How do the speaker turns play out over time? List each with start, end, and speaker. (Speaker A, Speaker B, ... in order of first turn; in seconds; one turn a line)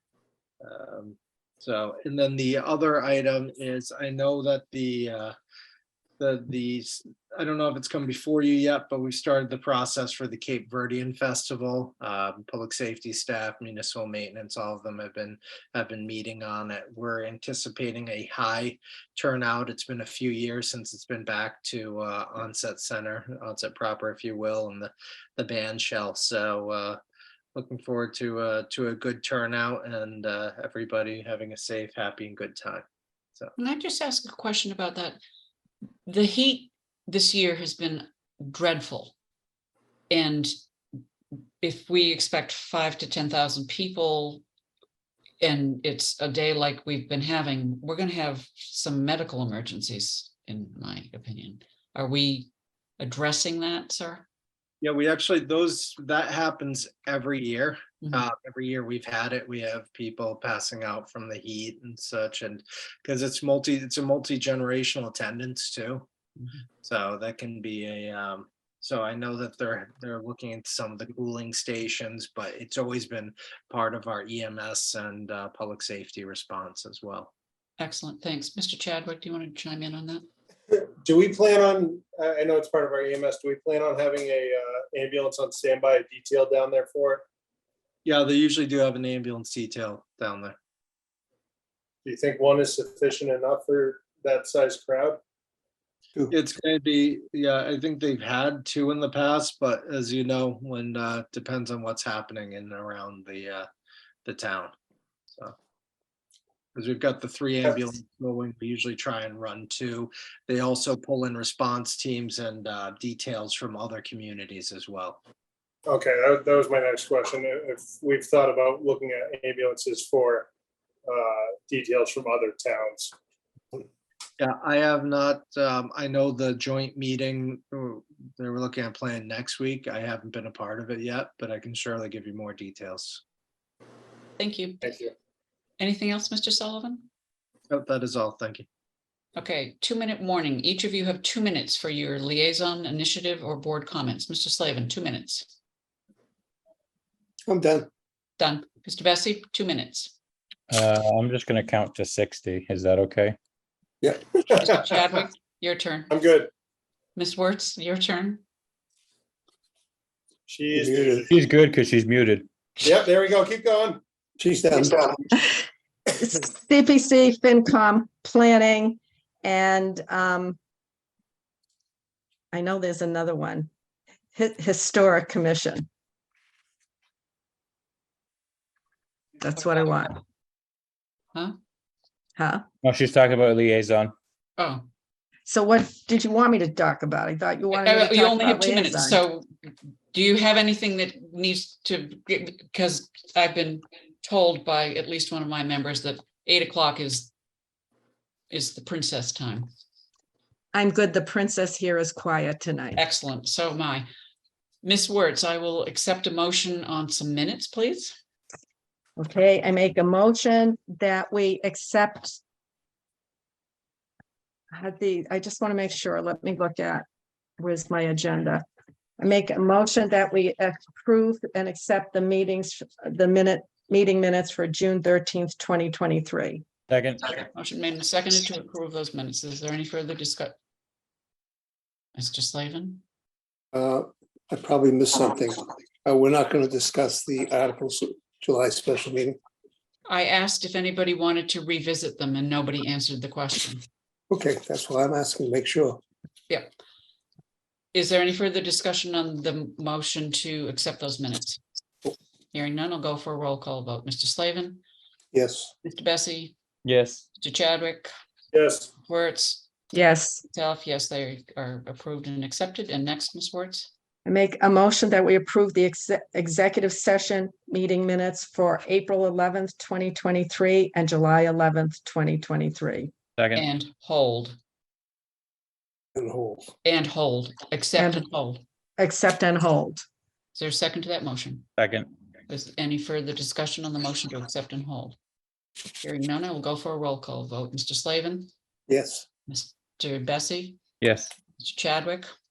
Speaker A: 0.6-5.3
Speaker A: 6.2-27.0
Speaker A: 27.6-32.9
Speaker B: 33.6-35.2
Speaker B: 36.1-39.1
Speaker B: 40.1-40.5
Speaker B: 41.6-44.4
Speaker B: 45.4-54.2
Speaker A: 54.8-66.1
Speaker A: 66.8-77.3
Speaker B: 77.8-80.2
Speaker C: 80.7-87.2
Speaker A: 88.0-90.6
Speaker C: 92.0-95.2
Speaker A: 96.3-103.7
Speaker A: 104.3-104.7
Speaker A: 106.8-115.2
Speaker C: 115.9-120.5
Speaker C: 121.1-123.1
Speaker A: 124.4-133.2
Speaker B: 134.4-135.1
Speaker B: 135.8-137.1
Speaker A: 137.7-138.7
Speaker B: 139.4-145.5
Speaker D: 147.5-147.9
Speaker B: 148.4-150.2
Speaker E: 150.7-153.4
Speaker B: 154.6-156.2
Speaker C: 156.1-156.5
Speaker B: 157.2-158.4
Speaker C: 160.5-161.3
Speaker D: 160.8-161.3
Speaker E: 161.3-162.5
Speaker C: 162.8-164.0
Speaker D: 164.4-165.1
Speaker F: 165.3-170.6
Speaker F: 172.5-173.7
Speaker F: 174.3-175.9
Speaker F: 179.4-180.2
Speaker F: 182.4-182.6
Speaker E: 182.8-184.2
Speaker B: 184.6-184.8
Speaker F: 185.5-189.2
Speaker B: 187.7-189.5
Speaker B: 190.1-197.3
Speaker B: 198.5-199.7
Speaker F: 200.7-203.0
Speaker B: 203.0-204.1
Speaker B: 204.8-208.2
Speaker F: 209.2-212.4
Speaker F: 214.7-217.1
Speaker F: 217.6-218.6
Speaker F: 219.2-226.6
Speaker E: 226.9-227.3
Speaker B: 227.4-230.5
Speaker B: 232.2-233.0
Speaker D: 233.7-239.4
Speaker B: 240.1-243.8
Speaker D: 244.3-246.0
Speaker B: 247.9-251.6
Speaker B: 252.5-254.8
Speaker D: 255.3-255.7
Speaker B: 255.8-256.6
Speaker E: 256.9-257.2
Speaker B: 257.4-258.1
Speaker C: 258.5-258.9
Speaker B: 259.0-259.7
Speaker F: 259.9-260.4
Speaker B: 260.5-263.9
Speaker F: 264.2-273.1
Speaker E: 273.4-273.7
Speaker B: 273.5-274.6
Speaker D: 276.1-276.7
Speaker B: 276.9-278.6
Speaker F: 278.0-278.3
Speaker F: 279.0-280.0
Speaker B: 280.6-281.7
Speaker E: 281.8-282.1
Speaker B: 282.5-285.2
Speaker B: 286.0-288.5
Speaker D: 288.9-289.3
Speaker B: 289.5-290.8
Speaker E: 291.0-291.3
Speaker B: 291.6-292.3